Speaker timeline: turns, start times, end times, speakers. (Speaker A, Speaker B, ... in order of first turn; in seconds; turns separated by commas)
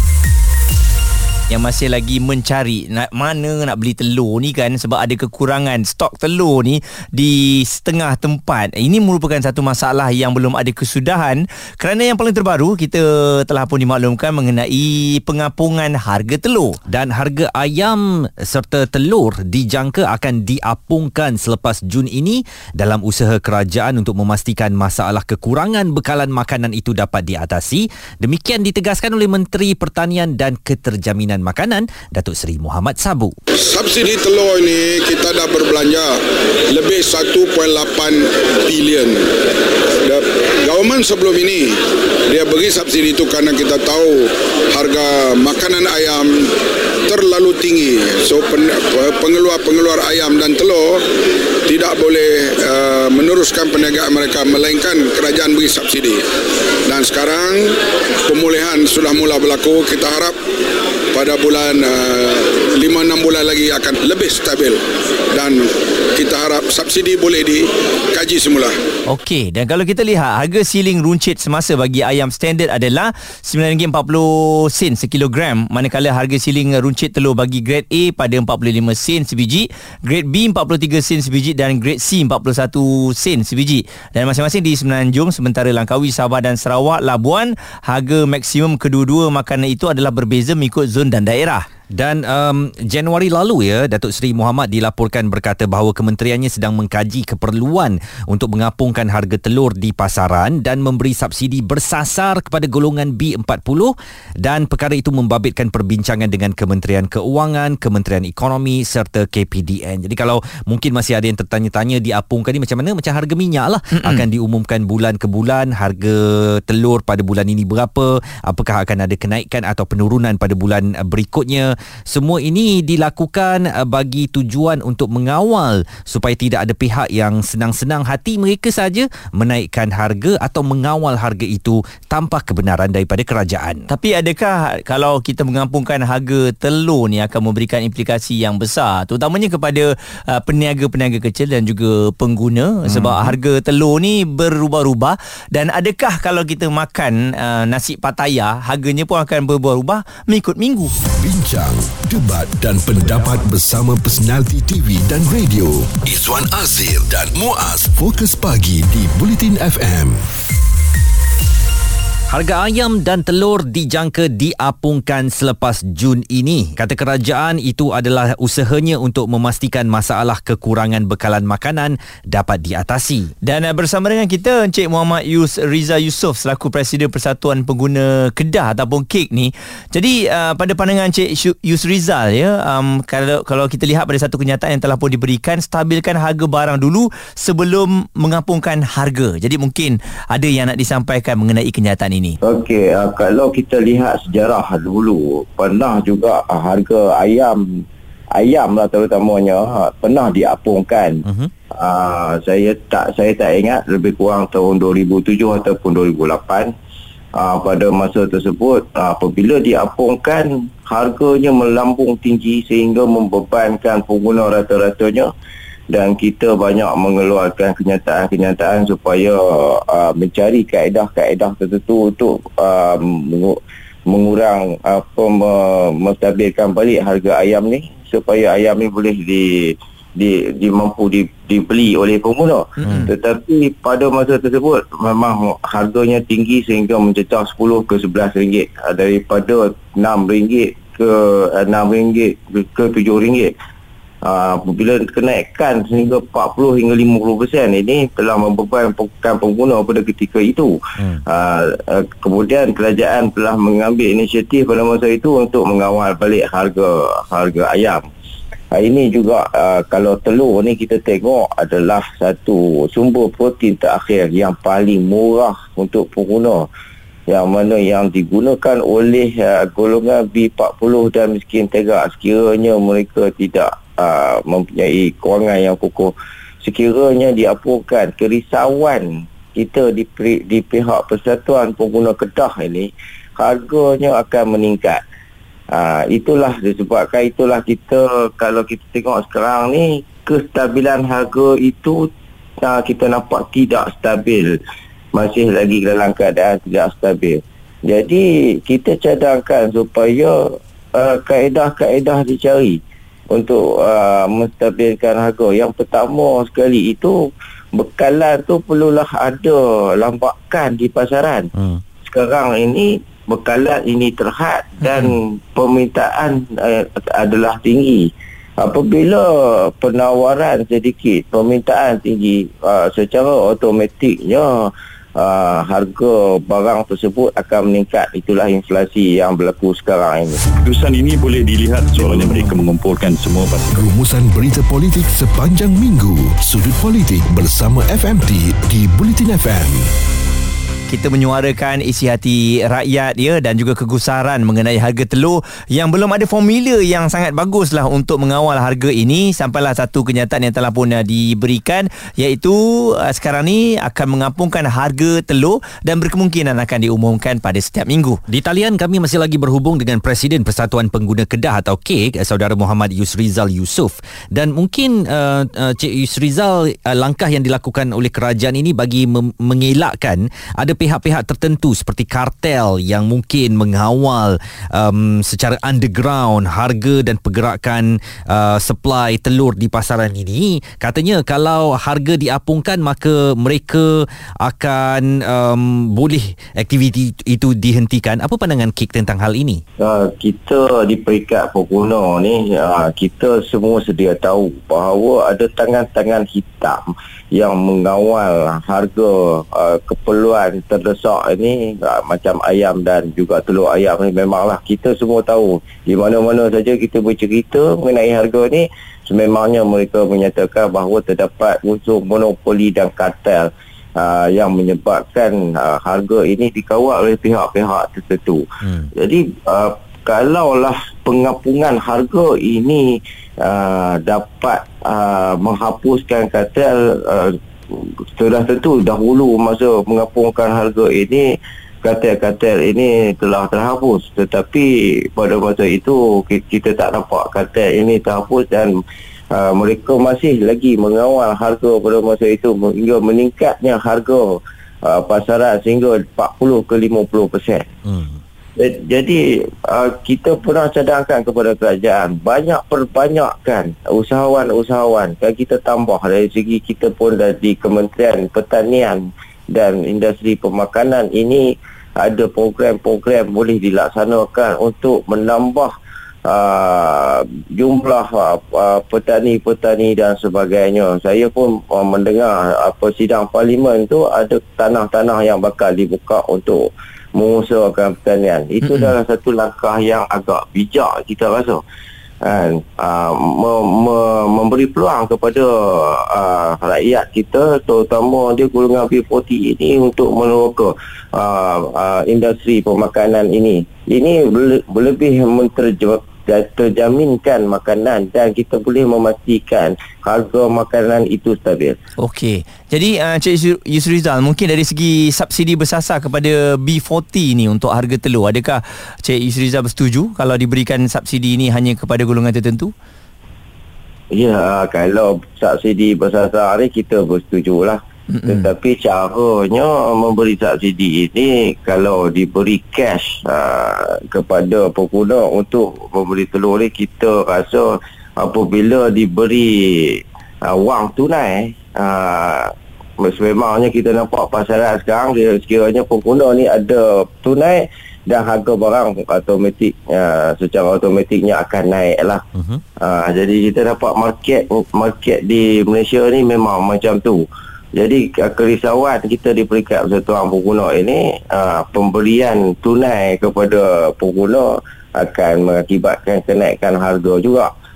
Speaker A: 1.5-16.8, Speaker B: 16.9-33.3, Speaker C: 33.5-39.3, Speaker C: 40.0-51.0, Speaker C: 51.6-56.3, Speaker C: 56.8-60.3, Speaker C: 61.1-68.8, Speaker A: 69.1-91.7, Speaker B: 91.9-133.8, Speaker A: 114.0-114.2, Speaker A: 133.9-150.9, Speaker B: 142.9-143.2, Speaker D: 151.2-160.2, Speaker B: 162.3-173.3, Speaker A: 173.4-192.4, Speaker E: 192.4-197.8, Speaker E: 198.3-206.7, Speaker E: 207.3-215.3, Speaker E: 215.9-243.5, Speaker A: 232.8-233.1, Speaker E: 244.2-250.7, Speaker E: 251.2-258.0, Speaker E: 258.7-266.6, Speaker E: 267.3-285.0, Speaker E: 285.7-292.1, Speaker E: 292.6-294.5, Speaker E: 295.1-300.3, Speaker E: 300.9-302.8, Speaker E: 303.3-307.1, Speaker E: 307.7-311.5, Speaker E: 312.1-318.1, Speaker E: 318.6-330.4, Speaker F: 330.6-333.7, Speaker D: 333.7-339.9, Speaker A: 340.9-358.2, Speaker B: 358.3-389.6, Speaker E: 389.8-418.4, Speaker E: 418.9-422.9, Speaker E: 423.4-431.2, Speaker E: 431.8-438.7, Speaker E: 439.3-447.6, Speaker B: 447.9-448.1, Speaker E: 448.6-465.7, Speaker E: 466.2-481.6, Speaker E: 482.2-501.8, Speaker A: 502.0-512.7, Speaker E: 514.1-542.2, Speaker A: 518.1-518.5, Speaker B: 542.4-542.6, Speaker E: 542.8-557.5